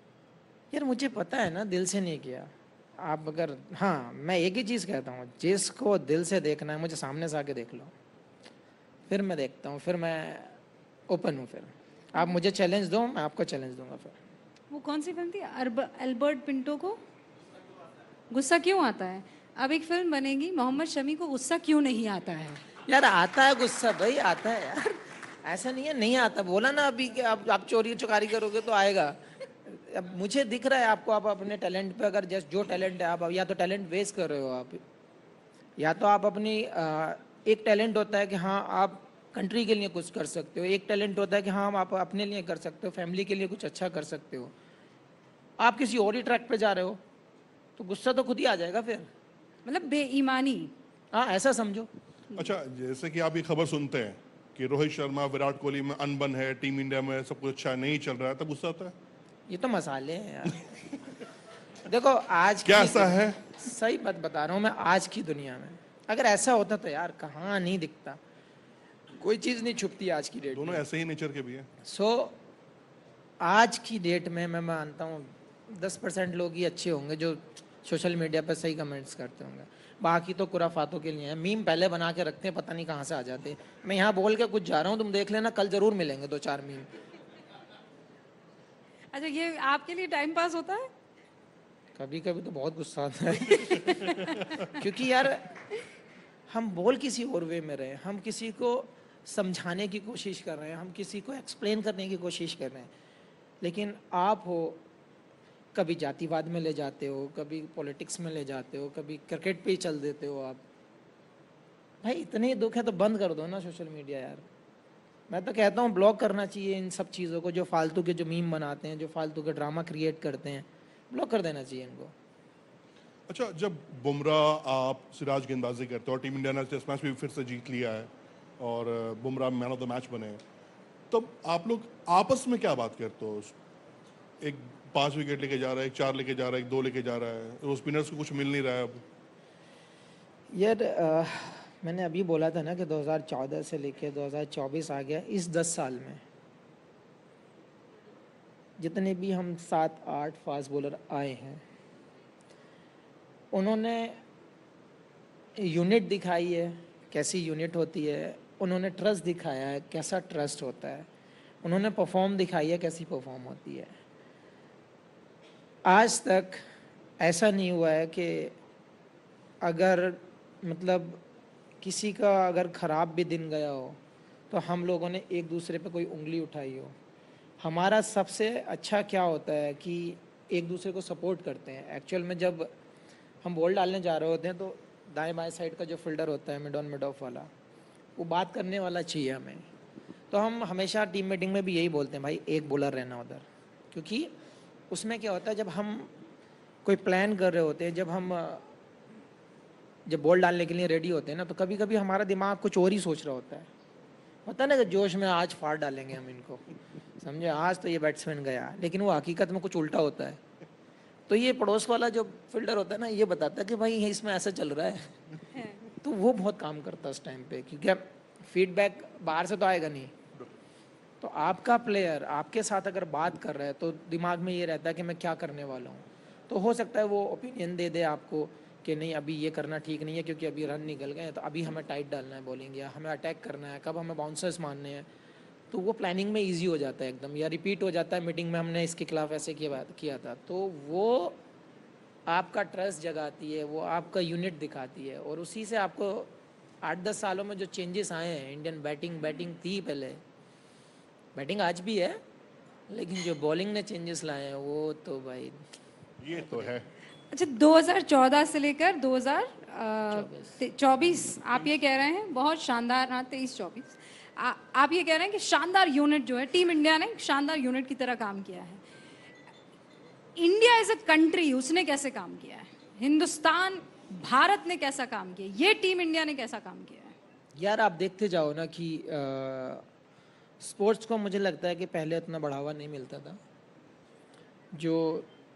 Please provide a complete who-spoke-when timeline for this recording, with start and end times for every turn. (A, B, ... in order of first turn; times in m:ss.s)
0:00.7-0:07.9 A
0:09.1-0:10.6 A
0:11.1-0:14.2 A
0:14.7-0:17.0 B
0:18.3-0:22.6 B
0:22.8-0:34.8 A
0:35.8-0:44.5 A
0:45.6-0:47.0 A
0:47.8-0:49.1 A
0:49.6-0:50.7 B
0:51.1-0:51.9 A
0:52.3-0:58.9 C
0:59.5-1:00.9 A
1:01.8-1:08.2 A
1:02.6-1:03.6 C
1:09.1-1:10.8 A
1:10.5-1:11.7 C
1:11.8-1:12.4 A
1:13.4-1:26.9 A
1:29.1-1:30.9 B
1:31.9-1:35.6 A
1:33.6-1:34.6 B
1:36.5-1:42.9 A
1:43.6-1:44.8 A
1:45.7-1:50.6 A
1:52.0-1:54.4 A
1:55.3-2:02.1 A
2:03.3-2:10.4 C
2:11.1-2:13.5 C
2:14.4-2:19.0 C
2:20.5-2:26.2 A
2:28.8-2:31.6 A
2:33.5-2:34.2 A
2:35.6-2:41.1 A
2:41.6-2:43.9 A
2:45.8-2:46.6 A
2:47.2-2:48.5 A
2:49.6-2:51.2 A
2:51.8-2:54.0 A
2:54.5-2:56.9 A
2:57.6-3:02.7 A
3:03.4-3:07.5 A
3:08.2-3:09.6 A
3:10.3-3:14.3 A
3:14.9-3:16.1 A
3:16.8-3:18.7 A
3:20.1-3:23.7 A
3:24.4-3:26.6 A
3:27.2-3:30.4 A
3:31.3-3:35.2 A
3:35.8-3:40.1 A
3:41.2-3:55.1 A
3:55.7-4:01.4 A
4:02.3-4:06.3 A
4:06.8-4:10.2 A
4:11.3-4:12.2 A
4:12.9-4:15.6 A
4:16.2-4:16.8 C
4:16.3-4:16.7 A
4:17.3-4:28.8 B
4:20.1-4:20.6 A
4:30.4-4:37.1 B
4:37.6-4:39.8 A
4:40.6-4:43.4 A
4:44.7-4:45.3 A